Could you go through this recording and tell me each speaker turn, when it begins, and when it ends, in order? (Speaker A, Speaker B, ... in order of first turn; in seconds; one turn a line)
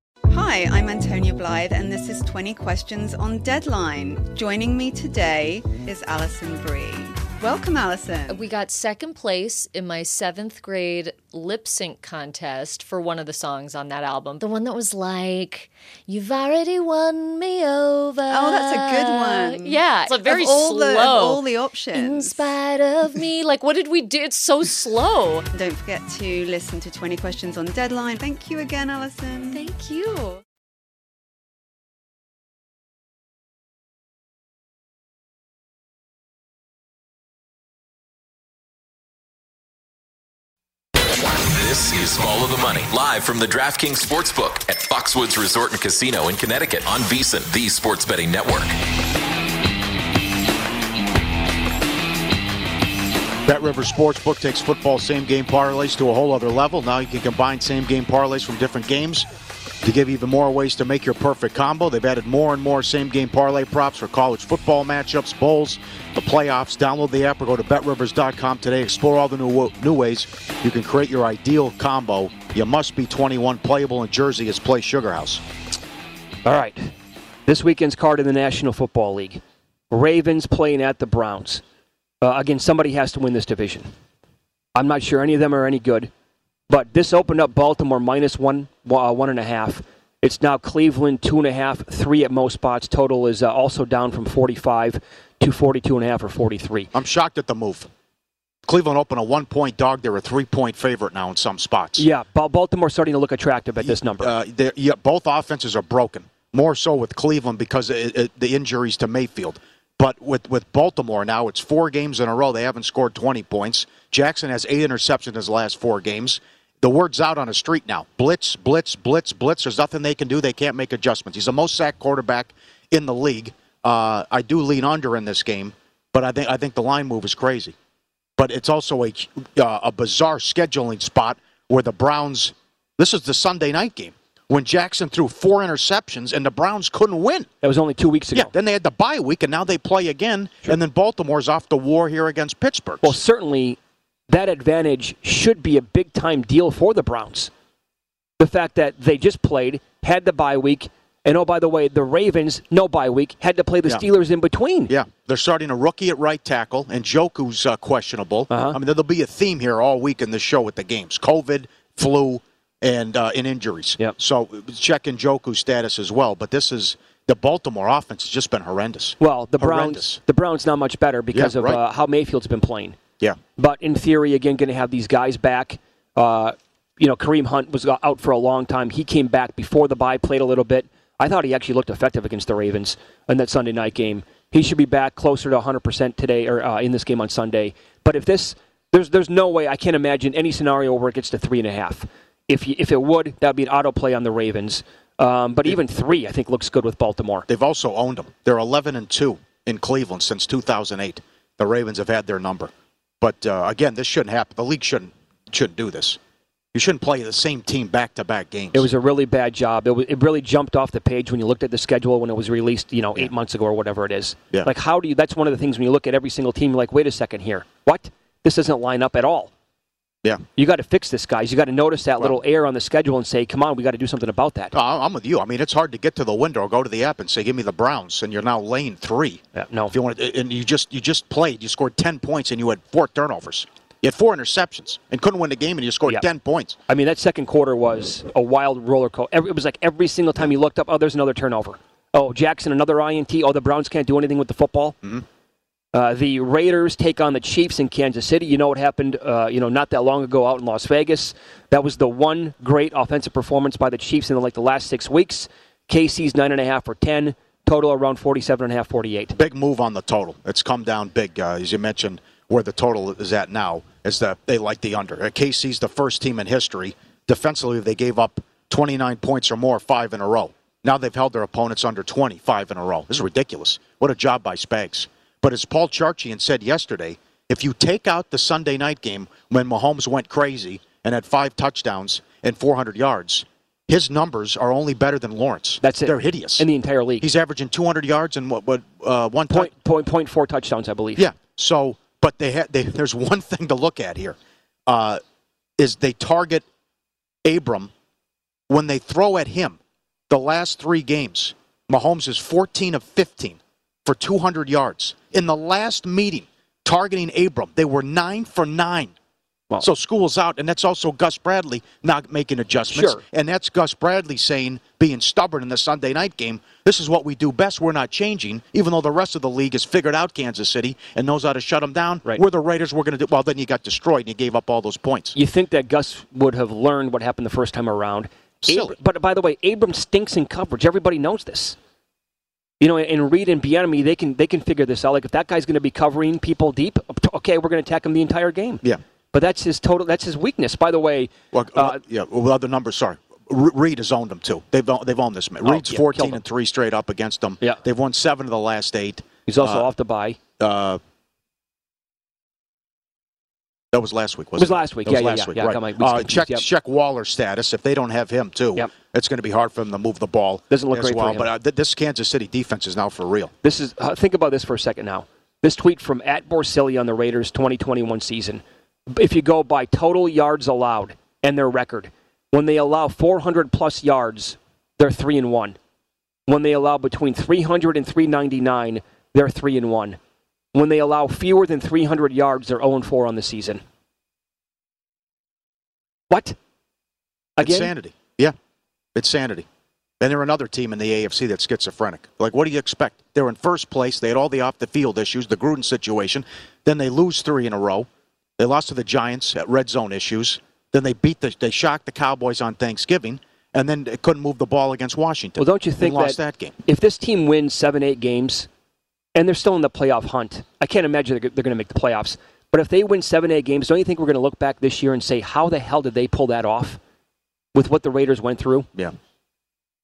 Speaker A: 0.3-8.5
Speaker B: 8.3-25.5
Speaker A: 18.3-22.4
Speaker A: 25.5-29.7
Speaker B: 29.5-30.4
Speaker C: 41.2-48.8
Speaker D: 53.5-59.3
Speaker D: 59.8-75.4
Speaker E: 76.5-76.9
Speaker E: 77.5-81.6
Speaker E: 82.2-83.9
Speaker E: 84.8-86.1
Speaker E: 86.7-96.9
Speaker D: 96.9-97.9
Speaker D: 98.7-102.1
Speaker E: 102.0-104.3
Speaker D: 103.8-127.8
Speaker D: 128.4-137.5
Speaker E: 137.6-138.5
Speaker D: 138.3-143.2
Speaker E: 143.0-143.8
Speaker E: 144.3-147.5
Speaker E: 148.4-154.9
Speaker D: 154.9-170.2
Speaker E: 158.5-158.8
Speaker E: 169.2-173.0
Speaker D: 171.3-171.8
Speaker E: 173.6-197.5
Speaker D: 197.5-206.2
Speaker D: 206.7-208.9
Speaker E: 208.7-219.5
Speaker E: 220.6-224.7
Speaker D: 224.7-236.8
Speaker E: 229.6-229.9
Speaker E: 236.9-245.0
Speaker E: 245.9-259.4
Speaker D: 259.4-286.7
Speaker E: 285.8-287.3
Speaker D: 287.2-289.7
Speaker E: 289.5-291.3
Speaker D: 291.2-295.2
Speaker D: 295.8-296.6
Speaker D: 297.4-297.9
Speaker D: 298.7-309.1
Speaker D: 309.8-325.4
Speaker E: 312.9-313.2
Speaker E: 325.4-331.8
Speaker D: 328.6-329.0
Speaker E: 332.8-342.0
Speaker D: 341.5-349.9
Speaker E: 345.6-346.4
Speaker E: 349.5-350.4
Speaker D: 350.6-351.0
Speaker D: 353.9-363.5
Speaker E: 354.6-356.7
Speaker E: 360.7-361.5
Speaker E: 363.6-375.8
Speaker E: 376.5-380.2
Speaker E: 380.7-383.8
Speaker E: 386.3-386.6
Speaker E: 387.6-387.9
Speaker D: 387.6-388.6
Speaker D: 389.1-389.7
Speaker D: 390.2-406.8
Speaker E: 405.6-408.7
Speaker E: 409.4-417.0
Speaker E: 417.7-418.9